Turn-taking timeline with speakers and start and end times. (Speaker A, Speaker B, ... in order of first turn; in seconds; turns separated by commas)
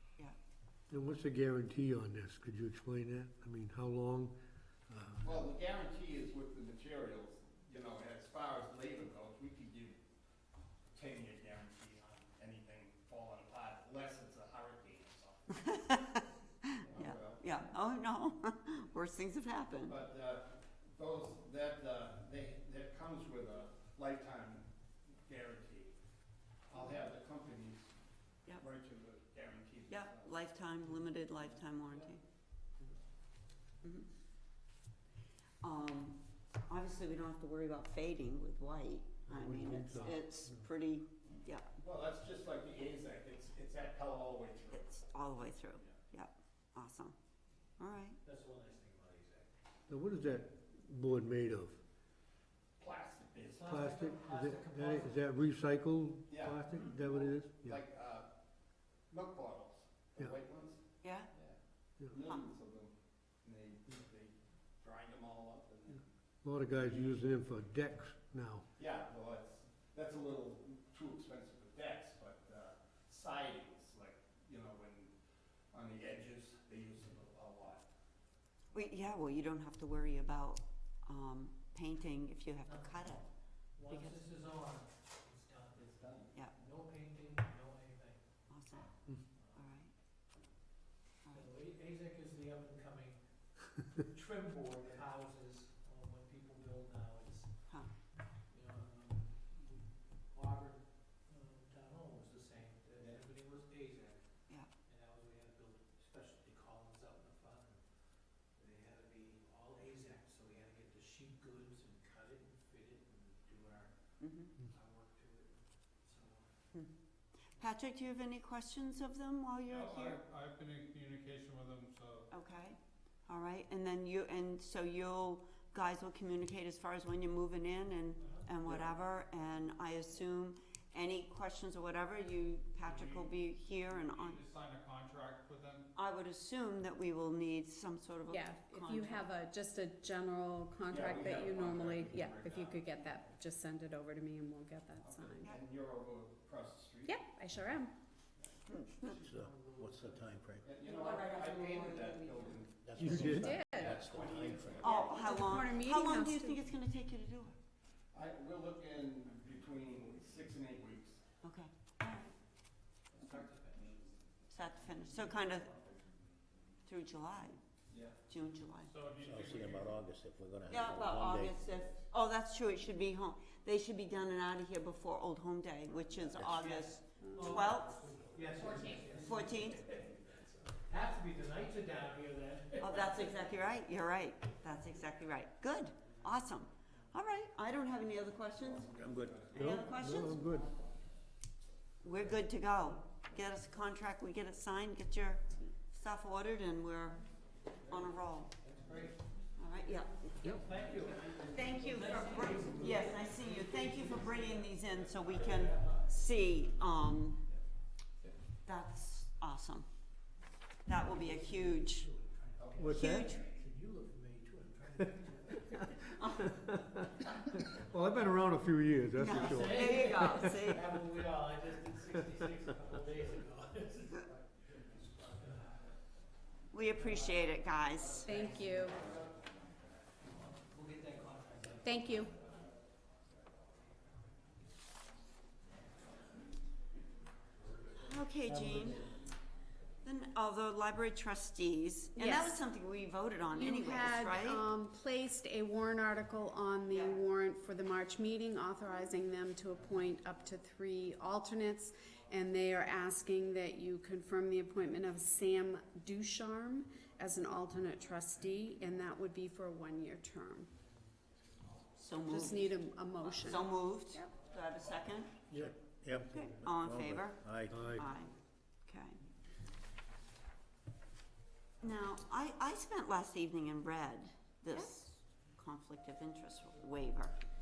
Speaker A: 0.9-4.3, Speaker A: 4.9-5.4, Speaker B: 5.2-10.0, Speaker B: 10.9-16.0, Speaker C: 15.6-16.2, Speaker B: 16.8-17.4, Speaker C: 16.9-20.0, Speaker B: 19.9-24.7, Speaker B: 25.2-25.9, Speaker B: 26.7-27.9, Speaker B: 28.5-30.4, Speaker C: 29.9-32.2, Speaker C: 33.8-34.1, Speaker C: 35.6-41.7, Speaker A: 39.3-40.7, Speaker B: 41.8-44.8, Speaker C: 44.7-47.1, Speaker C: 47.8-48.2, Speaker D: 48.2-49.5, Speaker A: 49.9-51.8, Speaker B: 52.8-53.9, Speaker D: 53.5-55.2, Speaker A: 53.7-57.8, Speaker B: 56.3-58.3, Speaker B: 59.1-60.8, Speaker C: 61.0-61.3, Speaker B: 61.3-61.6, Speaker B: 62.1-66.0, Speaker A: 66.4-68.7, Speaker B: 66.8-67.1, Speaker B: 68.8-75.1, Speaker B: 75.7-77.8, Speaker C: 78.7-83.3, Speaker D: 82.7-83.0, Speaker D: 83.8-88.2, Speaker C: 83.9-84.2, Speaker B: 85.8-86.3, Speaker C: 88.5-88.9, Speaker D: 89.3-89.7, Speaker C: 89.6-89.9, Speaker D: 91.3-97.7, Speaker D: 98.5-107.8, Speaker D: 108.5-116.5, Speaker C: 114.2-114.5, Speaker C: 117.6-120.2, Speaker E: 119.7-122.3, Speaker C: 122.3-134.4, Speaker D: 128.2-128.5, Speaker E: 132.8-133.3, Speaker E: 133.9-135.9, Speaker C: 135.9-139.3, Speaker F: 138.3-145.5, Speaker B: 140.9-143.1, Speaker B: 145.0-147.2, Speaker F: 147.1-147.9, Speaker B: 148.4-149.1, Speaker D: 149.0-150.5, Speaker G: 149.2-150.7, Speaker B: 150.6-155.3, Speaker C: 150.9-152.4, Speaker F: 151.2-151.5, Speaker G: 152.8-155.0, Speaker A: 153.0-153.6, Speaker F: 153.5-154.0, Speaker C: 154.8-157.6, Speaker F: 154.9-156.7, Speaker B: 158.1-161.2, Speaker C: 161.4-162.3, Speaker D: 163.2-163.9, Speaker C: 164.5-165.7, Speaker D: 165.2-165.7, Speaker C: 166.9-167.6, Speaker B: 167.9-168.2, Speaker C: 168.3-168.9, Speaker E: 168.8-170.0, Speaker G: 169.2-171.6, Speaker C: 170.7-178.0, Speaker D: 176.4-180.2, Speaker F: 177.2-177.5, Speaker C: 179.1-179.8, Speaker D: 180.8-183.7, Speaker C: 182.8-190.4, Speaker B: 188.6-189.8, Speaker G: 189.0-189.4, Speaker A: 189.5-190.7, Speaker C: 192.0-197.2, Speaker C: 197.9-198.5, Speaker D: 198.6-199.4, Speaker C: 199.6-200.2, Speaker D: 200.4-206.7, Speaker C: 201.4-207.4, Speaker C: 208.7-209.9, Speaker C: 210.9-212.1, Speaker D: 210.9-216.0, Speaker B: 212.6-213.0, Speaker A: 212.8-213.3, Speaker C: 212.9-213.4, Speaker C: 216.2-216.5, Speaker A: 217.7-220.5, Speaker C: 219.2-220.8, Speaker D: 219.2-225.9, Speaker C: 226.7-228.3, Speaker D: 227.0-227.3, Speaker D: 228.2-229.3, Speaker F: 228.2-229.0, Speaker D: 230.6-232.5, Speaker F: 231.8-232.3, Speaker C: 238.0-239.1, Speaker A: 238.5-239.0, Speaker C: 240.0-244.6, Speaker F: 242.2-242.6, Speaker F: 243.5-260.7, Speaker C: 246.9-247.2, Speaker C: 262.0-265.4, Speaker F: 262.3-264.3, Speaker A: 265.5-266.8, Speaker G: 265.5-267.8, Speaker C: 266.2-268.4, Speaker A: 267.6-268.1, Speaker C: 268.9-269.2, Speaker C: 271.8-277.3